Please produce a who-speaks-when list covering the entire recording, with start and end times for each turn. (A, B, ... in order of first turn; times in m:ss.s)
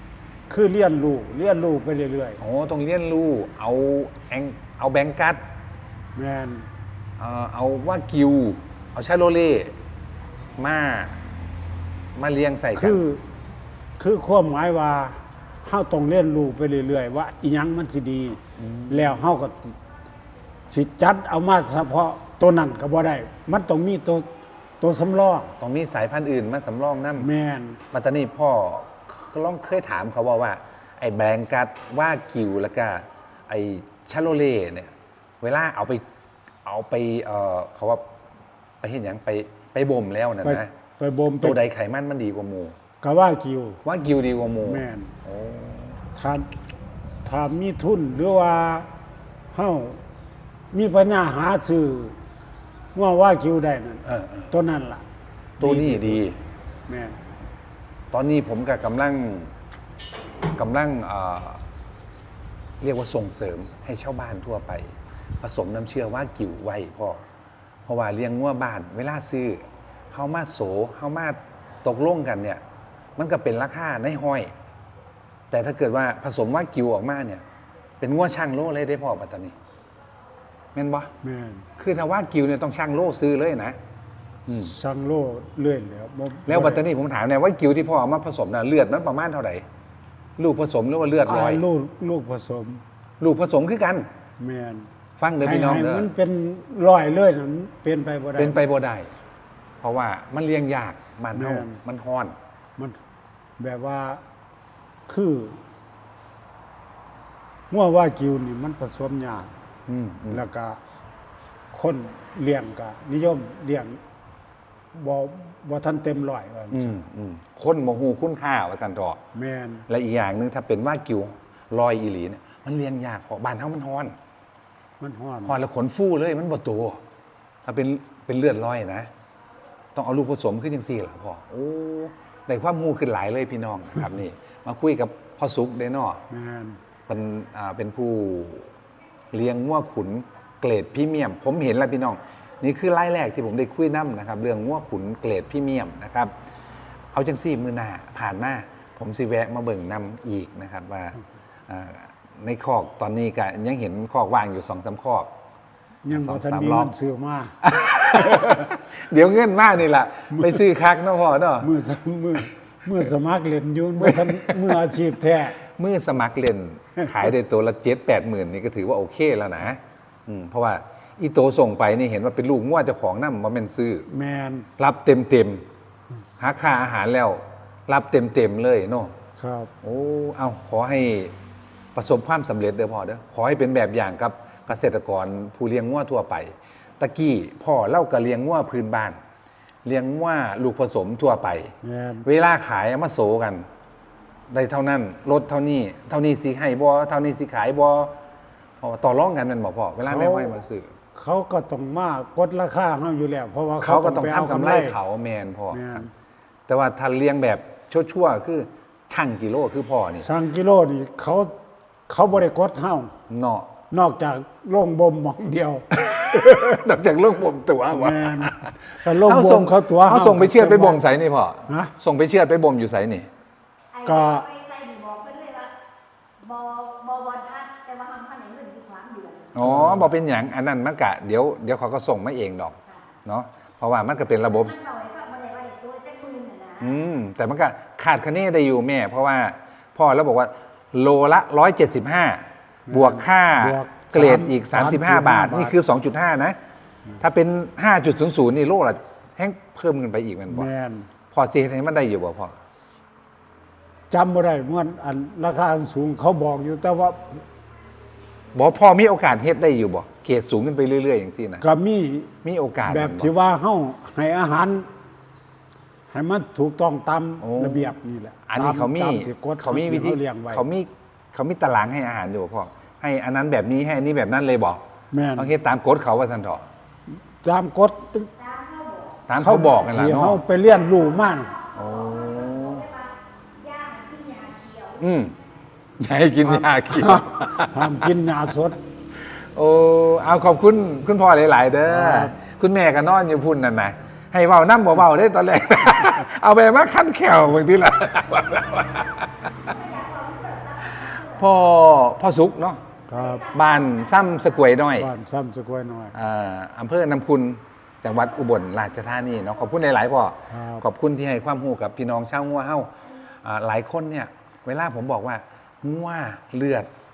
0:00.5-0:02.4 A
0:02.4-0:05.4 B
0:06.2-0:06.7 A
0:07.2-0:09.8 B
0:10.6-0:11.2 B
0:12.1-0:13.0 B
0:12.7-0:13.2 A
0:14.0-0:19.7 A
0:18.6-0:19.2 B
0:20.7-0:24.2 A
0:24.8-0:25.5 A
0:25.6-0:27.3 B
0:27.2-0:27.8 A
0:27.9-0:36.0 B
0:36.6-0:38.0 B
0:38.8-0:40.7 B
0:40.4-0:41.6 A
0:41.4-0:42.8 B
0:43.0-0:43.8 A
0:43.8-0:46.0 B
0:44.6-0:45.1 A
0:46.1-0:46.5 A
0:47.2-0:48.9 A
0:49.5-0:50.0 A
0:50.7-0:52.2 A
0:52.9-0:55.0 A
0:54.0-0:54.5 B
0:55.6-0:56.2 A
0:55.6-0:56.4 B
0:56.9-0:57.2 A
0:58.1-0:59.5 B
1:00.6-1:01.6 B
1:02.8-1:07.2 B
1:07.8-1:12.6 B
1:13.2-1:14.5 B
1:15.5-1:17.4 B
1:18.0-1:19.6 B
1:20.7-1:21.1 B
1:21.2-1:21.7 A
1:21.8-1:23.8 B
1:24.5-1:24.7 B
1:24.5-1:26.8 A
1:26.4-1:29.6 B
1:30.4-1:31.6 B
1:31.2-1:32.8 A
1:33.2-1:34.1 B
1:34.4-1:34.9 A
1:35.2-1:36.1 B
1:35.4-1:38.6 A
1:38.4-1:39.1 B
1:39.8-1:42.4 B
1:41.3-1:41.8 A
1:43.6-1:44.2 A
1:45.1-1:45.6 A
1:47.7-1:49.5 A
1:49.9-1:50.4 B
1:50.3-1:50.8 A
1:51.7-1:54.0 A
1:54.9-1:57.0 A
1:56.7-1:59.2 B
1:59.3-1:59.8 A
1:59.9-2:04.2 B
2:05.0-2:05.6 A
2:05.4-2:07.0 B
2:07.6-2:09.1 B
2:09.9-2:16.2 B
2:16.3-2:16.8 A
2:17.1-2:18.7 B
2:19.3-2:26.3 B
2:27.1-2:35.3 B
2:36.0-2:37.6 A
2:36.1-2:36.9 B
2:37.6-2:41.7 B
2:40.3-2:40.6 A
2:41.6-2:45.6 A
2:44.0-2:44.9 B
2:45.6-2:54.1 B
2:54.1-2:54.7 A
2:54.8-2:55.7 B
2:56.4-2:59.1 B
2:59.4-2:59.7 A
2:59.8-3:01.3 B
3:01.9-3:09.2 B
3:09.8-3:13.7 B
3:11.8-3:12.2 A
3:14.5-3:18.2 B
3:18.8-3:20.9 B
3:20.0-3:20.5 A
3:21.1-3:25.0 A
3:23.8-3:26.0 B
3:25.7-3:26.1 A
3:26.7-3:30.3 B
3:30.2-3:31.5 A
3:32.1-3:33.1 A
3:33.3-3:33.7 B
3:33.9-3:35.8 A
3:35.9-3:43.3 B
3:37.9-3:41.0 A
3:41.7-3:41.9 A
3:43.9-3:45.7 C
3:44.0-3:44.4 A
3:46.4-3:49.6 C
3:49.5-3:54.8 B
3:49.6-3:50.1 A
3:54.5-3:57.0 C
3:56.8-4:06.6 B
4:02.9-4:05.8 A
4:07.2-4:10.7 B
4:10.5-4:11.1 A
4:11.3-4:12.6 B
4:14.1-4:17.4 A
4:18.5-4:21.6 B
4:21.6-4:22.3 A
4:22.4-4:23.3 B
4:22.8-4:24.9 A
4:26.1-4:30.6 A
4:27.4-4:27.9 B
4:28.5-4:34.8 B
4:35.1-4:35.5 A
4:35.4-4:36.6 B
4:37.4-4:38.3 A
4:38.4-4:39.3 C
4:39.3-4:40.4 B
4:39.4-4:41.5 A
4:40.7-4:45.0 C
4:41.8-4:42.8 B
4:45.0-4:45.4 B
4:46.0-4:48.1 B
4:46.4-4:48.8 A
4:49.5-4:59.7 B
4:51.9-4:52.4 A
4:59.5-5:01.7 C
5:00.8-5:02.8 B
5:03.1-5:03.5 A
5:03.1-5:04.8 C
5:03.5-5:05.1 B
5:04.9-5:06.1 A
5:06.1-5:16.9 B
5:10.5-5:10.8 A